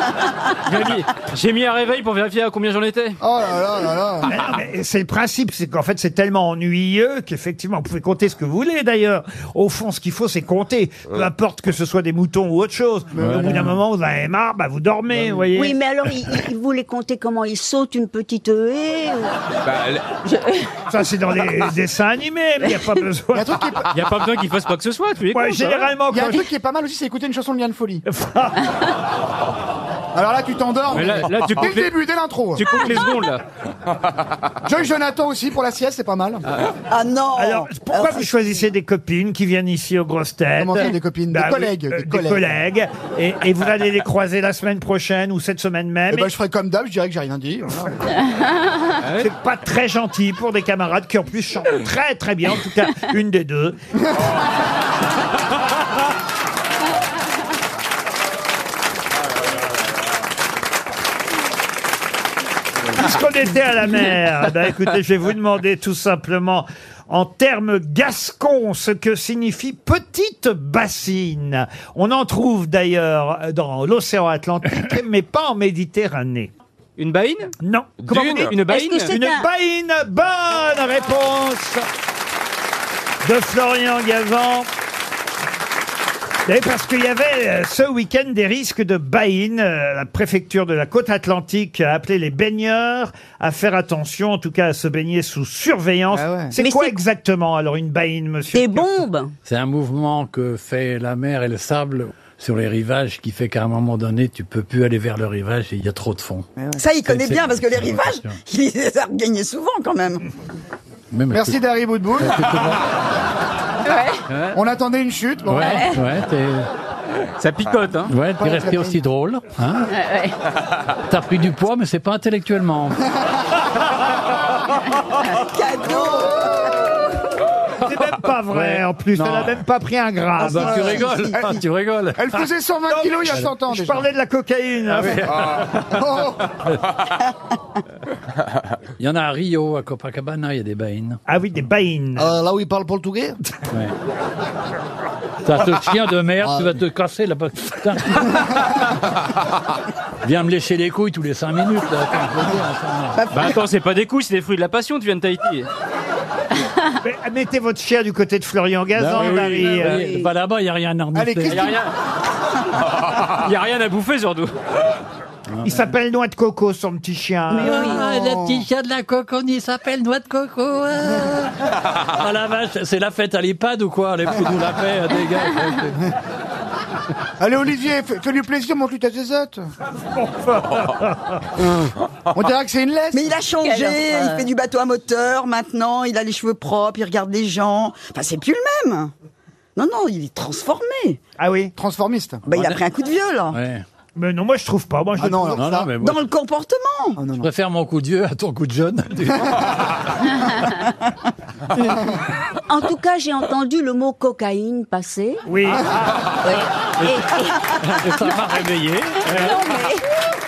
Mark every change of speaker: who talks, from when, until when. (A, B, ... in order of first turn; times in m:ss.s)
0:00.6-0:03.2 A
0:03.2-0:04.3 B
0:04.2-0:15.8 C
0:13.2-0:13.6 B
0:13.2-0:13.7 D
0:15.6-0:19.3 E
0:20.3-0:20.6 E
0:20.9-0:23.6 C
0:23.3-0:23.9 B
0:23.9-0:25.9 A
0:25.3-0:26.4 C
0:26.1-0:28.0 B
0:28.1-0:28.6 C
0:30.2-0:32.7 B
0:30.9-0:32.0 A
0:32.5-0:33.4 A
0:34.6-0:36.4 B
0:36.9-0:38.2 F
0:37.4-0:46.3 C
0:40.6-0:42.5 B
0:46.1-0:48.0 B
0:49.0-0:49.3 A
0:49.2-0:53.8 C
1:03.0-1:16.5 C
1:17.0-1:19.1 A
1:17.6-1:21.8 C
1:18.7-1:19.5 E
1:23.2-1:24.7 C
1:26.5-1:38.8 C
1:36.6-1:37.0 E
1:38.5-1:39.4 E
1:39.5-1:48.4 D
1:46.8-1:50.2 F
1:51.1-1:51.6 D
1:51.3-1:52.5 B
1:52.2-1:52.9 D
1:53.9-1:54.2 E
1:54.3-1:54.6 A
1:54.5-1:55.8 B
1:55.5-1:56.7 D
1:57.4-1:58.1 A
1:58.1-1:59.9 D
1:58.4-1:59.0 B
1:59.9-2:00.4 E
2:01.1-2:03.0 D
2:05.5-2:06.6 F
2:05.8-2:06.8 B
2:07.8-2:11.0 C
2:08.5-2:09.6 D
2:10.4-2:12.3 D
2:10.4-2:11.6 B
2:12.2-2:14.1 B
2:12.9-2:15.3 C
2:15.0-2:15.4 D
2:15.8-2:16.5 B
2:19.0-2:21.2 D
2:21.3-2:22.3 C
2:23.0-2:23.3 B
2:25.4-2:28.5 D
2:30.2-2:33.2 D
2:33.3-2:35.7 A
2:37.0-2:40.1 C
2:39.0-2:41.7 D
2:41.1-2:41.8 B
2:41.5-2:41.9 A
2:43.3-2:44.5 A
2:45.6-2:47.9 C
2:47.5-2:48.1 E
2:47.6-2:51.5 D
2:47.9-2:48.6 B
2:52.2-2:56.0 D
2:57.4-2:59.7 B
3:00.2-3:01.1 C
3:02.3-3:03.3 B
3:03.1-3:09.1 F
3:03.6-3:04.4 E
3:09.8-3:11.2 F
3:11.4-3:11.7 C
3:11.8-3:12.4 B
3:12.4-3:13.6 F
3:13.5-3:13.8 D
3:14.2-3:15.7 C
3:15.2-3:16.0 B
3:15.6-3:16.2 D
3:16.0-3:17.2 F
3:17.2-3:17.5 B
3:17.4-3:19.6 D
3:22.7-3:25.4 E
3:25.5-3:26.0 C
3:27.0-3:27.6 E
3:28.0-3:29.2 D
3:29.2-3:30.0 E